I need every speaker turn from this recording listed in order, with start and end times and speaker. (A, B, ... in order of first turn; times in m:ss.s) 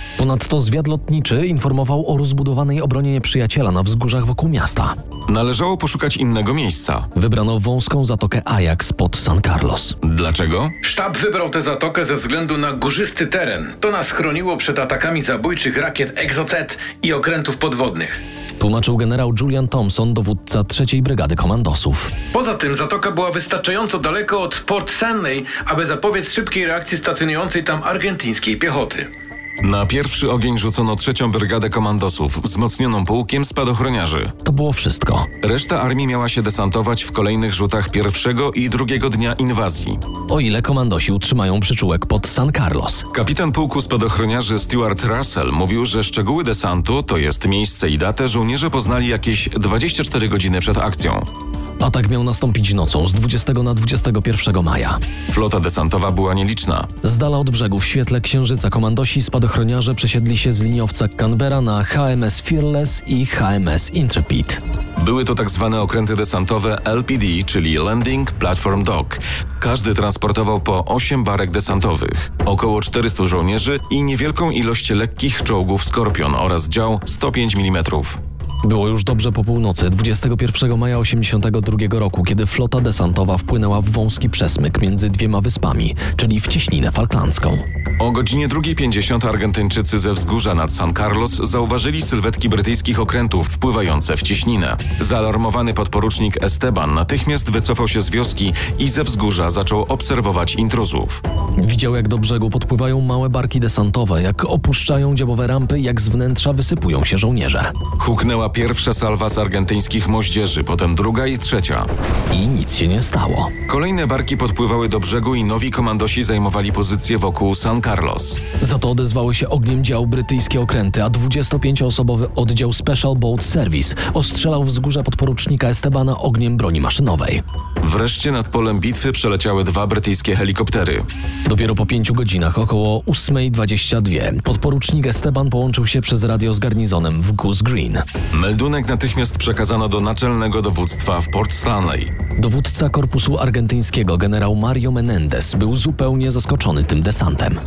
0:00.2-0:05.0 A
0:05.3-0:07.1 B
0:07.2-0:10.0 A
0:10.0-0:10.8 B
0:10.8-0:18.2 C
0:18.6-0:22.1 A
0:22.3-0:29.1 C
0:29.6-0:34.3 B
0:34.4-0:35.3 A
0:35.4-0:40.0 B
0:40.3-0:43.1 A
0:43.1-0:51.3 B
0:51.8-0:55.0 A
0:55.3-0:56.9 B
0:57.0-1:04.6 A
1:05.0-1:18.2 B
1:18.6-1:27.6 A
1:28.0-1:41.2 B
1:41.6-1:47.7 A
1:48.0-1:51.9 B
1:52.3-1:53.5 A
1:53.7-1:58.4 B
1:58.6-2:07.4 A
2:07.8-2:11.0 B
2:11.5-2:18.0 A
2:18.3-2:22.1 B
2:22.4-2:27.6 A